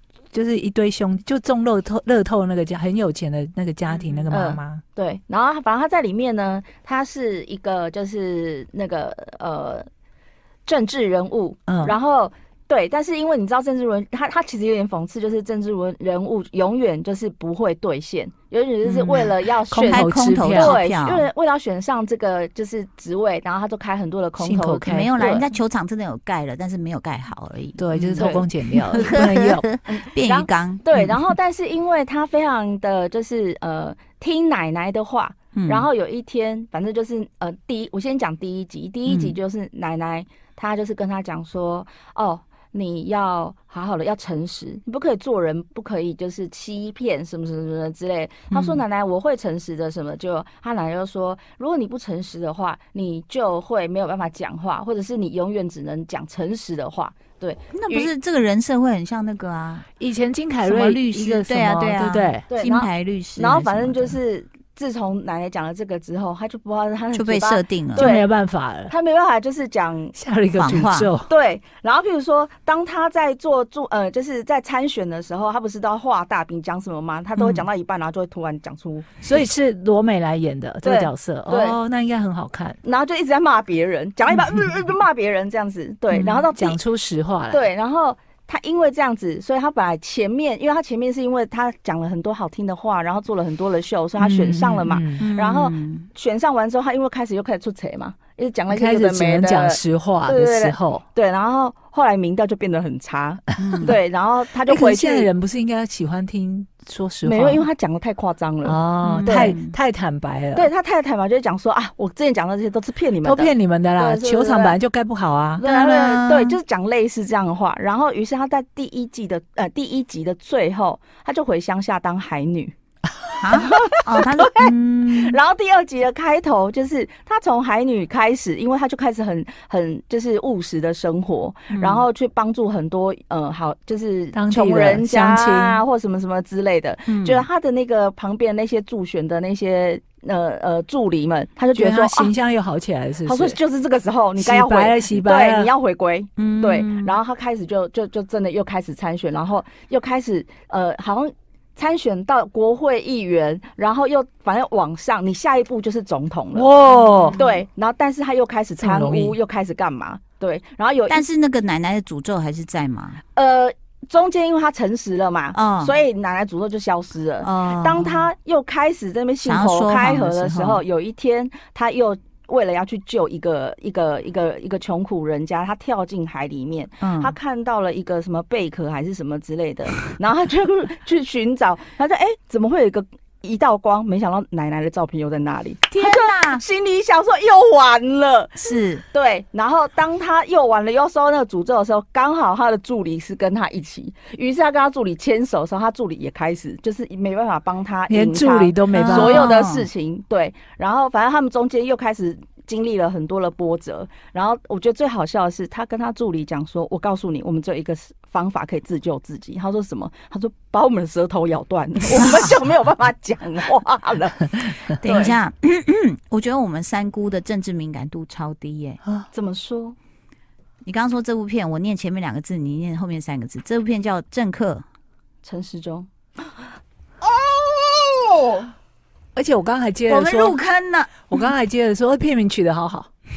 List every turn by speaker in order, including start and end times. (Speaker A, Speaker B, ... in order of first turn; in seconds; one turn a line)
Speaker A: 0.3-4.8
Speaker B: 3.9-4.3
Speaker C: 4.3-9.9
Speaker C: 10.7-25.4
Speaker A: 11.7-11.9
Speaker A: 18.8-20.8
Speaker B: 19.9-21.3
Speaker A: 24.4-25.1
Speaker B: 24.9-28.4
Speaker A: 27.8-29.6
Speaker C: 28.1-29.1
Speaker B: 28.9-31.1
Speaker C: 29.9-58.1
Speaker B: 35.5-35.9
Speaker B: 39.1-39.4
Speaker B: 48.5-48.8
Speaker B: 57.7-59.9
Speaker A: 60.0-62.5
Speaker B: 60.6-64.2
Speaker C: 62.5-68.3
Speaker B: 67.1-68.1
Speaker A: 68.0-68.9
Speaker C: 68.9-70.1
Speaker A: 70.1-71.3
Speaker B: 70.5-71.1
Speaker C: 71.3-79.2
Speaker A: 79.2-82.8
Speaker C: 80.8-81.8
Speaker C: 82.8-86.8
Speaker B: 86.1-86.4
Speaker A: 86.5-87.6
Speaker C: 87.5-105.3
Speaker A: 94.2-95.2
Speaker B: 95.2-96.1
Speaker A: 98.7-101.0
Speaker B: 103.6-103.9
Speaker A: 104.7-107.7
Speaker C: 107.2-109.5
Speaker A: 108.6-110.7
Speaker B: 109.0-109.7
Speaker C: 110.5-114.8
Speaker A: 113.2-115.6
Speaker C: 115.6-122.7
Speaker B: 115.6-116.6
Speaker B: 123.4-125.4
Speaker C: 123.6-142.3
Speaker B: 131.7-132.0
Speaker A: 134.3-135.8
Speaker B: 137.1-137.4
Speaker A: 141.7-143.6
Speaker C: 143.2-156.7
Speaker A: 144.4-145.7
Speaker B: 146.4-147.2
Speaker A: 156.5-157.4
Speaker B: 156.9-157.6
Speaker C: 157.3-161.2
Speaker A: 158.8-159.3
Speaker B: 161.1-163.2
Speaker C: 163.3-215.4
Speaker B: 165.5-166.0
Speaker B: 167.4-168.3
Speaker B: 169.4-170.8
Speaker B: 177.0-177.3
Speaker B: 185.9-186.6
Speaker B: 188.6-189.0
Speaker A: 198.1-199.7
Speaker B: 198.9-199.9
Speaker B: 212.2-212.5
Speaker B: 214.9-219.0
Speaker C: 219.3-219.9
Speaker B: 220.8-224.8
Speaker C: 225.4-226.6
Speaker C: 227.2-228.7
Speaker A: 229.3-230.6
Speaker B: 230.1-231.4
Speaker A: 231.3-233.1